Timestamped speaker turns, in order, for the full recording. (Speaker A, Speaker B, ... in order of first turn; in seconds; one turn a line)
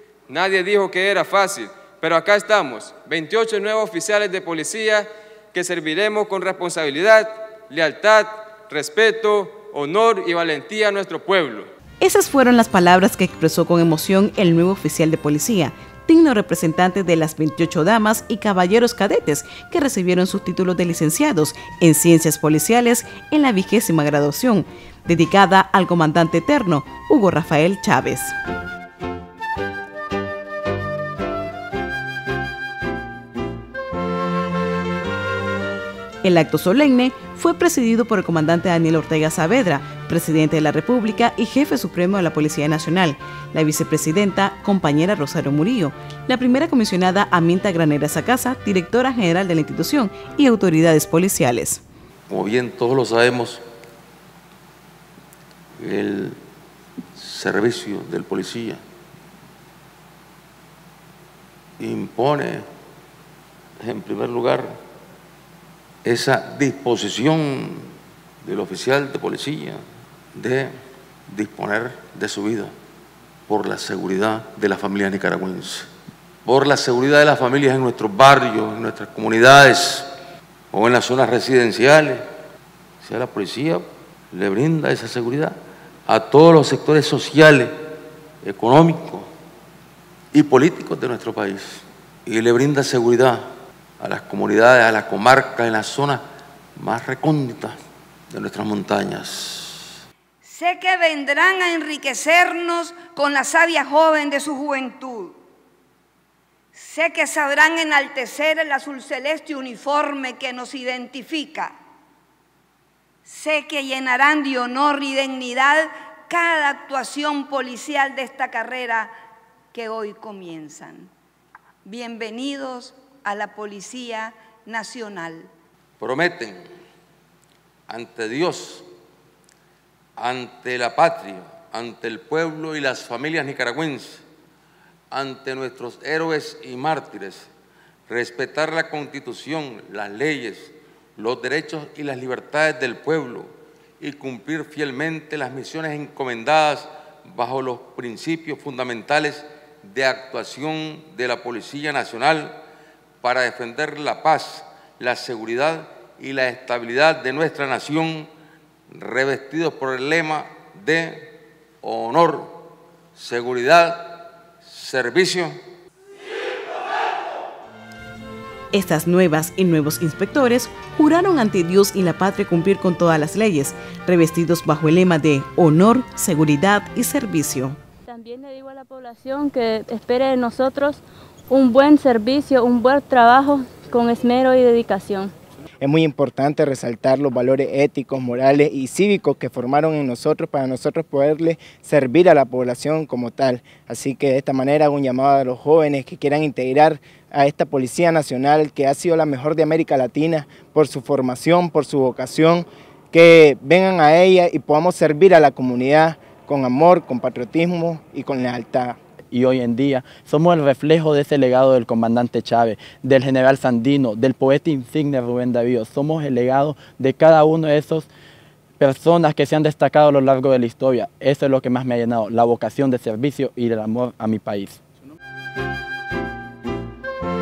Speaker A: 0.3-11.7
Speaker B: 12.0-28.3
Speaker B: 36.2-51.8
Speaker C: 52.3-53.6
Speaker C: 55.8-56.4
Speaker C: 57.1-58.8
Speaker C: 61.8-62.6
Speaker C: 63.8-64.8
Speaker C: 66.0-67.9
Speaker C: 68.4-69.8
Speaker C: 70.3-70.7
Speaker C: 71.3-72.7
Speaker C: 73.5-75.9
Speaker C: 76.4-80.1
Speaker C: 80.7-82.2
Speaker C: 83.0-85.5
Speaker C: 86.1-87.7
Speaker C: 88.4-89.3
Speaker C: 90.3-93.5
Speaker C: 94.0-96.2
Speaker C: 96.8-97.8
Speaker C: 98.3-99.8
Speaker D: 100.4-105.3
Speaker D: 106.7-111.7
Speaker D: 113.2-119.1
Speaker D: 119.7-121.1
Speaker D: 121.8-125.5
Speaker C: 126.0-126.6
Speaker C: 127.9-128.8
Speaker C: 130.2-134.2
Speaker C: 135.1-137.5
Speaker C: 138.1-152.6
Speaker C: 153.2-158.3
Speaker C: 158.9-162.6
Speaker C: 163.1-165.6
Speaker B: 168.7-177.8
Speaker E: 178.1-185.3
Speaker F: 185.8-209.0
Speaker G: 209.3-218.1
Speaker G: 218.8-224.8